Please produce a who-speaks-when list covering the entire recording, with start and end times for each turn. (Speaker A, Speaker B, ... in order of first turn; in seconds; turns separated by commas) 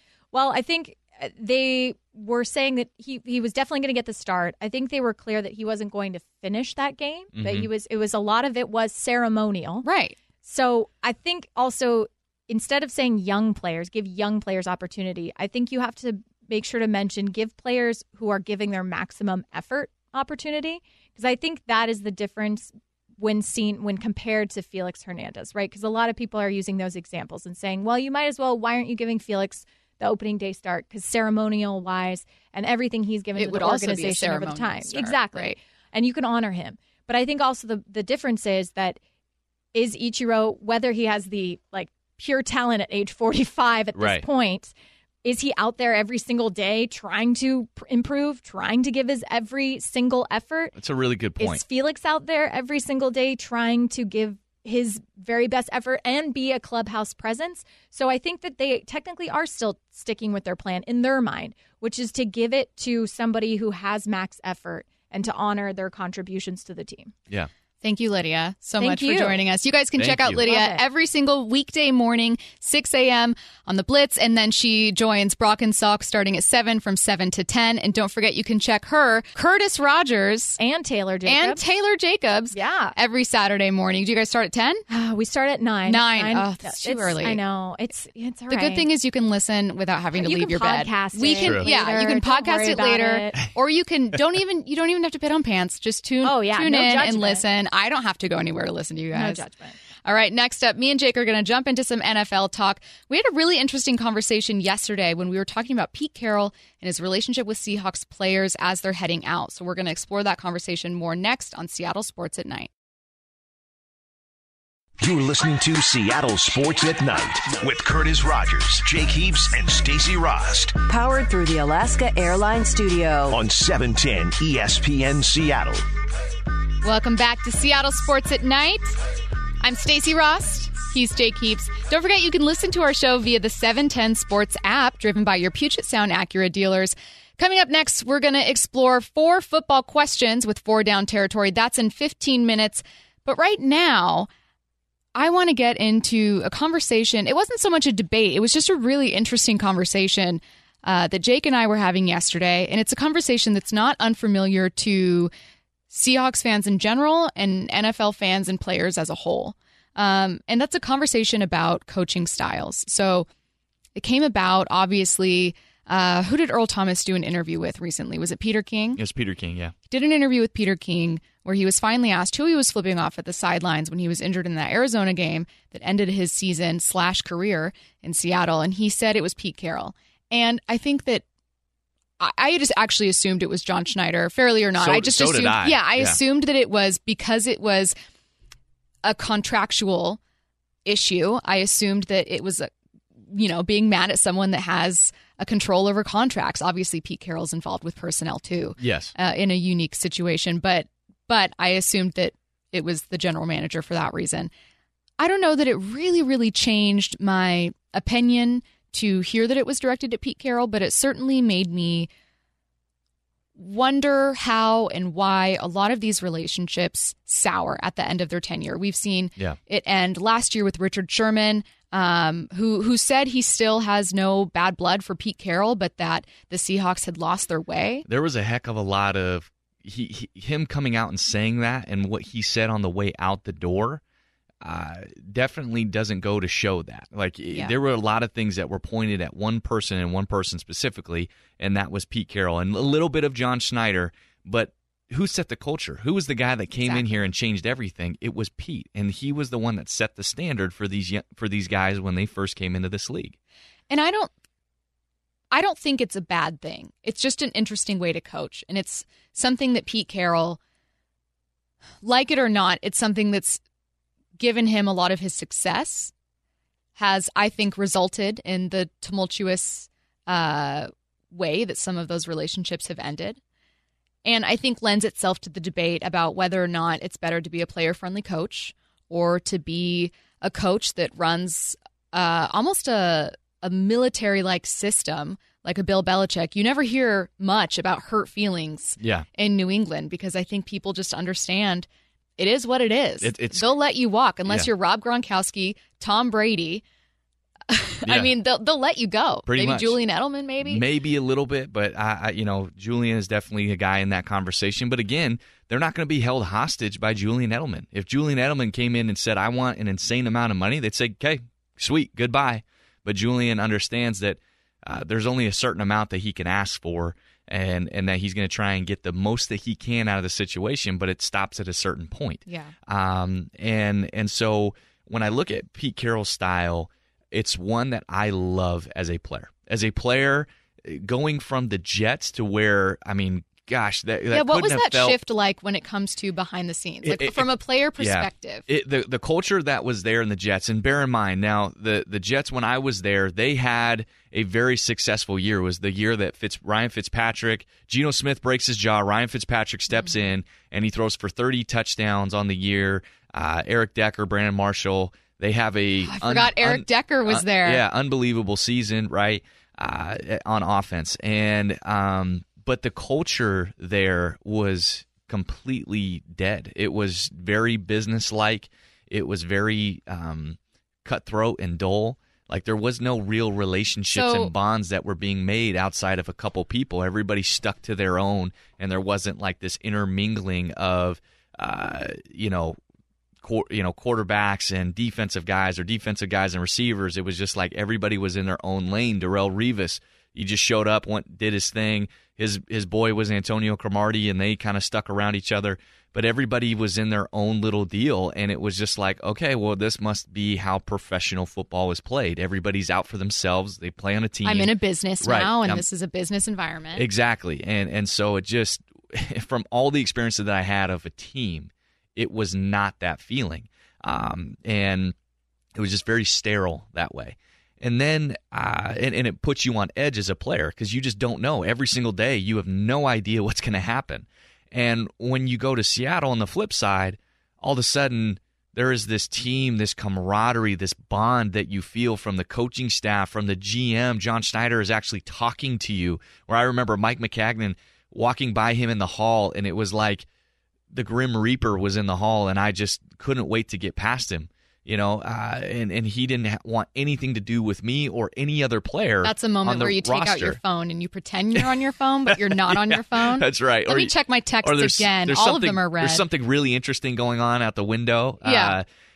Speaker A: 0.3-9.8, Speaker B: 7.3-7.7, Speaker C: 9.8-10.2, Speaker A: 10.4-39.0, Speaker C: 33.4-35.5, Speaker A: 39.7-50.7, Speaker B: 44.0-44.2, Speaker B: 50.8-51.6, Speaker A: 51.4-67.1, Speaker C: 67.8-80.6, Speaker A: 68.8-69.4, Speaker B: 70.0-70.4, Speaker A: 70.4-70.8, Speaker A: 80.6-81.6, Speaker C: 81.2-84.8, Speaker A: 82.5-82.9, Speaker A: 84.9-88.9, Speaker C: 85.8-87.4, Speaker C: 88.5-99.4, Speaker A: 90.1-93.4, Speaker B: 91.4-91.7, Speaker A: 96.2-97.4, Speaker A: 99.1-99.8, Speaker C: 100.0-112.7, Speaker D: 115.0-120.8, Speaker E: 120.9-123.4, Speaker D: 123.3-125.8, Speaker C: 126.8-129.0, Speaker C: 129.6-144.3, Speaker C: 145.1-155.3, Speaker C: 155.9-163.3, Speaker C: 163.9-169.0, Speaker B: 168.9-169.7, Speaker C: 169.9-181.2, Speaker C: 182.2-187.9, Speaker B: 184.8-186.2, Speaker C: 189.0-190.2, Speaker C: 190.8-192.7, Speaker C: 193.3-204.5, Speaker B: 198.8-199.1, Speaker C: 205.2-212.1, Speaker C: 213.6-228.1, Speaker B: 228.1-234.0, Speaker B: 234.6-253.3, Speaker C: 246.8-247.3, Speaker C: 253.9-254.3, Speaker C: 255.5-260.6, Speaker C: 262.0-263.6, Speaker C: 264.4-266.1, Speaker C: 267.0-273.4, Speaker C: 274.2-291.9, Speaker B: 289.0-289.2, Speaker C: 292.4-296.8, Speaker B: 293.2-293.7, Speaker C: 297.7-300.8, Speaker B: 298.0-298.3, Speaker B: 299.5-300.0, Speaker B: 300.6-335.2, Speaker C: 322.4-322.7, Speaker C: 334.3-338.6, Speaker B: 337.0-382.8, Speaker C: 356.0-357.8, Speaker C: 374.1-374.5, Speaker B: 383.4-405.8, Speaker C: 404.4-407.1, Speaker B: 406.9-415.1, Speaker B: 415.8-440.2, Speaker B: 440.9-450.6, Speaker C: 449.2-456.2, Speaker B: 452.3-458.8, Speaker C: 458.4-458.8